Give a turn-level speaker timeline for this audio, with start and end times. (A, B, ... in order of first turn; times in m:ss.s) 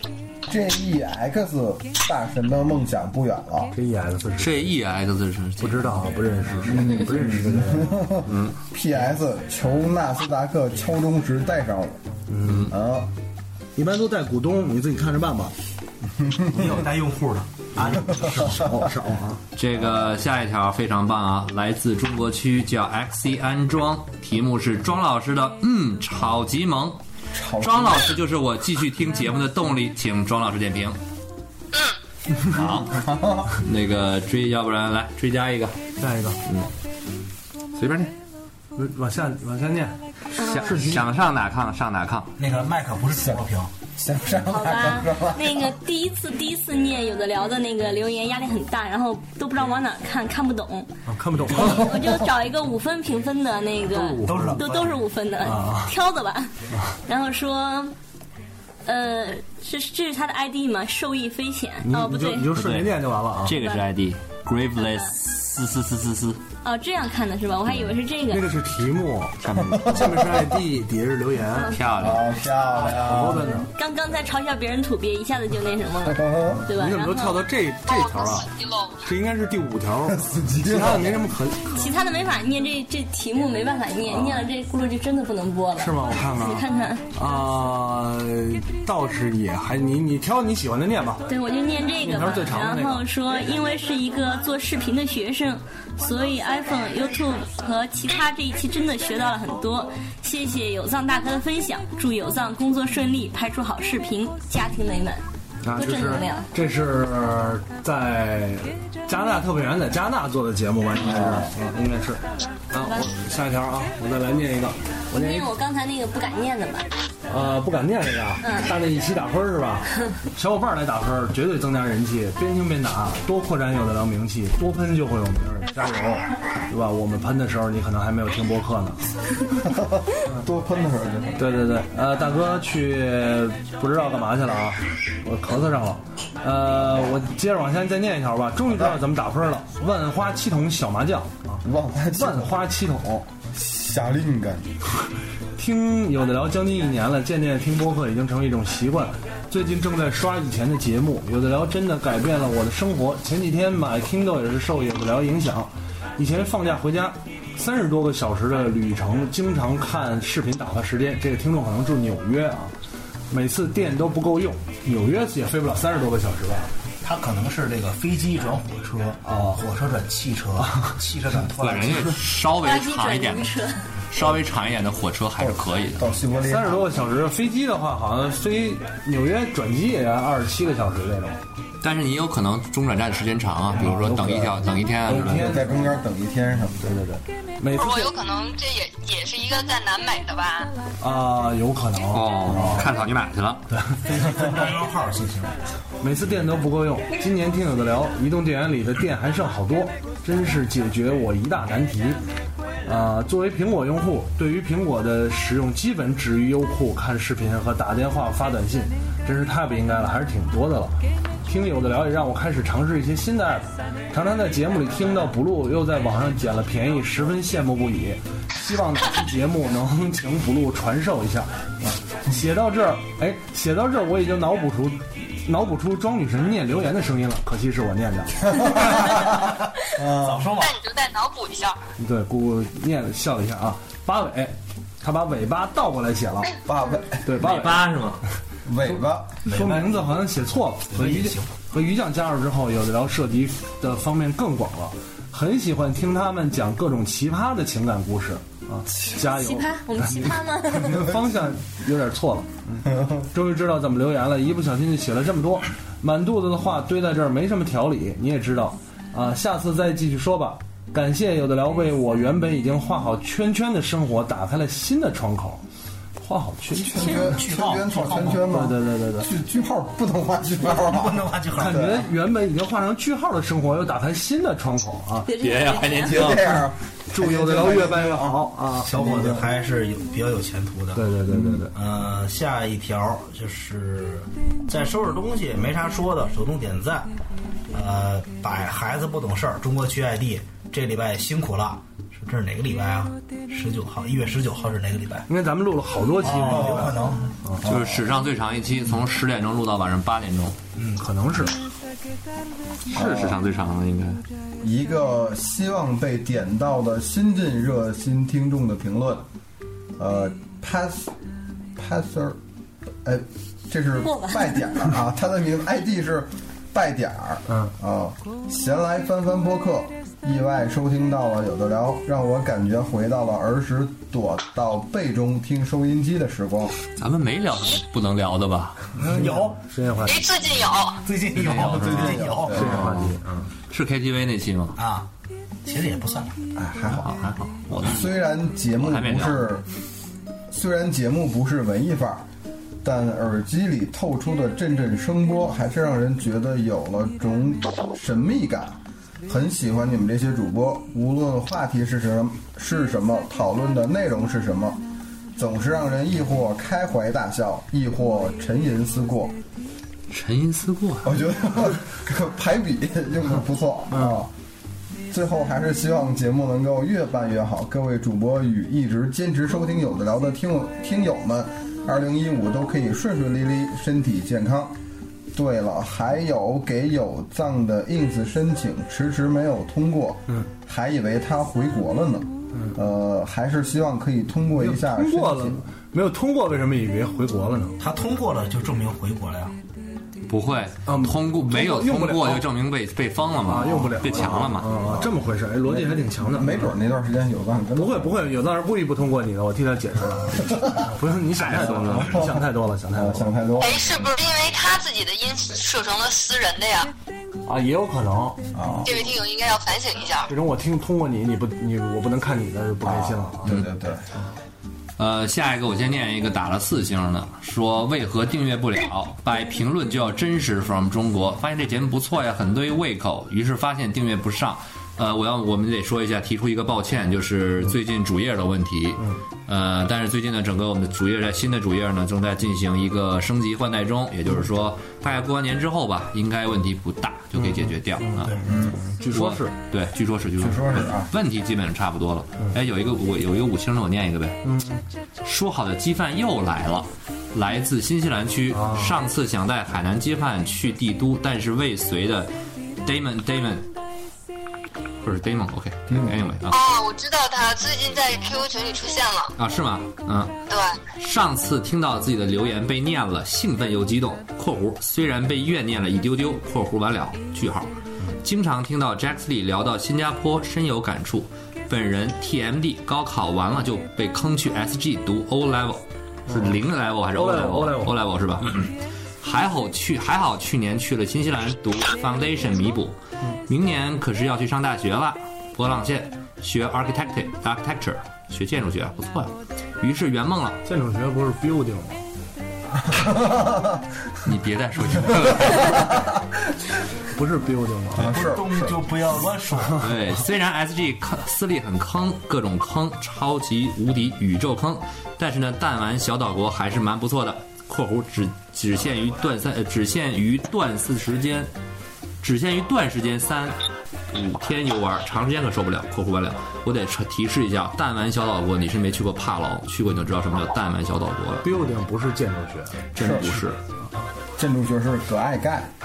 0:00.4-0:03.7 A
0:03.7-0:04.7 B
0:04.4-0:06.7 C
0:05.6-0:08.1 B
0:06.6-0:12.0 A
0:08.2-0:08.5 C
0:12.3-0:12.7 B
0:12.4-0:12.7 C
0:12.7-0:13.1 A
0:13.8-0:15.5 B
0:16.5-0:18.5 D
0:17.7-0:19.4 B
0:19.6-0:27.0 C
0:27.3-0:28.2 A
0:27.6-0:31.0 C
0:32.5-0:35.8 C
0:32.9-0:33.5 A
0:36.0-0:36.4 B
0:37.7-0:38.1 C
0:38.8-0:41.1 B
0:40.4-0:40.7 E
0:40.4-0:42.3 C
0:42.4-0:43.7 D
0:44.0-0:45.7 A
0:44.4-0:50.9 E
0:51.1-0:52.2 B
0:51.5-0:56.5 E
0:53.9-0:54.6 B
0:54.2-0:55.0 D
0:55.4-0:55.9 B
0:57.0-0:57.9 E
0:58.8-1:02.5 E
1:01.8-1:03.6 B
1:02.5-1:06.4 C
1:03.5-1:03.8 E
1:04.8-1:05.1 E
1:06.6-1:08.5 E
1:08.3-1:11.8 B
1:09.8-1:10.4 A
1:11.7-1:12.3 C
1:12.0-1:13.5 A
1:12.8-1:13.7 B
1:13.7-1:17.4 E
1:16.0-1:16.6 A
1:16.5-1:18.5 B
1:17.8-1:19.1 F
1:19.0-1:21.9 B
1:20.1-1:21.3 A
1:21.7-1:27.0 E
1:24.0-1:24.5 B
1:25.8-1:31.2 B
1:31.3-1:45.2 E
1:32.0-1:33.0 B
1:45.6-1:55.5 B
1:45.7-1:46.5 E
1:51.0-1:51.5 A
1:55.1-1:56.9 E
1:57.3-2:09.1 B
1:58.4-1:58.7 E
2:09.7-2:11.4 A
2:11.4-2:23.3 B
2:21.6-2:22.5 A
2:23.5-2:24.8 A
2:25.6-2:42.7 B
2:43.3-2:46.7 B
2:47.0-2:52.1 D
2:49.2-2:49.6 B
2:51.6-2:53.5 C
2:52.6-2:53.9 E
2:54.1-2:56.0 C
2:55.4-2:56.8 A
2:56.4-3:01.4 B
3:01.8-3:05.6 C
3:03.8-3:06.0 B
3:05.3-3:06.9 A
3:06.8-3:08.1 B
3:07.7-3:10.7 F
3:11.0-3:12.9 B
3:12.1-3:13.6 C
3:12.5-3:12.9 D
3:13.7-3:14.2 B
3:14.0-3:15.6 D
3:16.0-3:22.2 B
3:22.8-3:41.5 B
3:42.2-3:49.2 B
3:49.0-3:49.3 A
3:50.0-3:50.5 A
3:50.1-3:50.7 D
3:50.6-3:51.8 F
3:52.0-3:56.6 B
3:56.6-3:57.2 A
3:57.2-3:58.0 B
3:57.4-3:58.2 C
3:58.6-3:59.4 A
3:58.8-4:25.6 B
3:59.5-4:00.0 D
4:00.9-4:01.6 D
4:09.2-4:11.1 E
4:26.2-4:27.4 B
4:26.7-4:32.1 A
4:27.1-4:28.4 D
4:28.4-4:29.3 B
4:30.8-4:31.9 D
4:31.5-4:35.3 B
4:35.2-4:36.2 E
4:35.4-4:36.6 C
4:36.0-4:39.4 A
4:37.1-4:39.1 B
4:38.8-4:41.1 D
4:40.9-4:41.7 B
4:41.3-4:41.6 A
4:41.7-4:47.1 D
4:47.7-4:55.3 D
4:55.3-4:57.6 B
4:56.2-4:57.4 D
4:56.4-4:56.9 A
4:57.6-4:58.0 A
4:57.6-5:00.6 C
5:00.9-5:01.6 B
5:02.9-5:04.2 C
5:02.9-5:03.4 A
5:04.6-5:09.2 A
5:10.0-5:11.1 A
5:11.8-5:12.4 A
5:13.0-5:26.8 A
5:14.0-5:14.7 E
5:27.0-5:28.9 C
5:29.0-5:29.6 D
5:29.1-5:30.2 B
5:30.0-5:31.0 F
5:31.0-5:32.9 D
5:31.3-5:34.8 C
5:31.7-5:32.8 A
5:32.5-5:33.5 B
5:34.8-5:35.1 D
5:35.6-5:36.4 D
5:36.6-5:37.2 A
5:36.9-5:38.1 C
5:37.8-5:39.6 A
5:38.8-5:39.5 C
5:40.5-5:42.2 A
5:42.8-5:54.8 A
5:55.4-5:59.4 A
6:00.1-6:01.1 C
6:01.0-6:04.3 A
6:03.9-6:04.2 B
6:05.1-6:14.8 A
6:15.3-6:25.6 A
6:24.6-6:27.8 B
6:27.8-6:29.5 D
6:30.3-6:34.7 C
6:30.8-6:32.5 B
6:33.4-6:36.7 B
6:33.7-6:38.2 A
6:37.8-6:43.3 B
6:41.6-6:44.1 A
6:43.6-6:46.9 F
6:47.4-6:48.8 B
6:48.5-6:49.1 A
6:48.8-6:50.3 F
6:50.3-6:53.6 B
6:52.8-6:54.1 A
6:55.0-7:18.3 C
7:17.4-7:19.5 B
7:18.4-7:18.8 A
7:19.1-7:24.4 C
7:20.4-7:21.1 A
7:24.4-7:24.8 B
7:25.2-7:32.3 C
7:28.5-7:29.0 B
7:32.8-7:33.7 C
7:35.0-7:36.6 C
7:35.9-7:36.1 A
7:36.5-7:39.3 F
7:39.4-7:40.4 C
7:40.5-7:40.8 F
7:41.0-8:10.6 C
7:56.3-7:56.6 B
7:57.1-7:57.9 B
8:10.6-8:12.0 B
8:12.9-8:13.6 A
8:14.2-8:15.9 C
8:15.6-8:15.9 A
8:17.1-8:18.2 B
8:18.0-8:18.8 A
8:18.0-8:19.8 D
8:19.8-8:31.5 C
8:32.2-8:33.6 C
8:34.1-8:41.5 C
8:41.4-8:42.9 B
8:42.9-8:43.6 C
8:43.0-8:43.4 A
8:44.4-8:45.7 A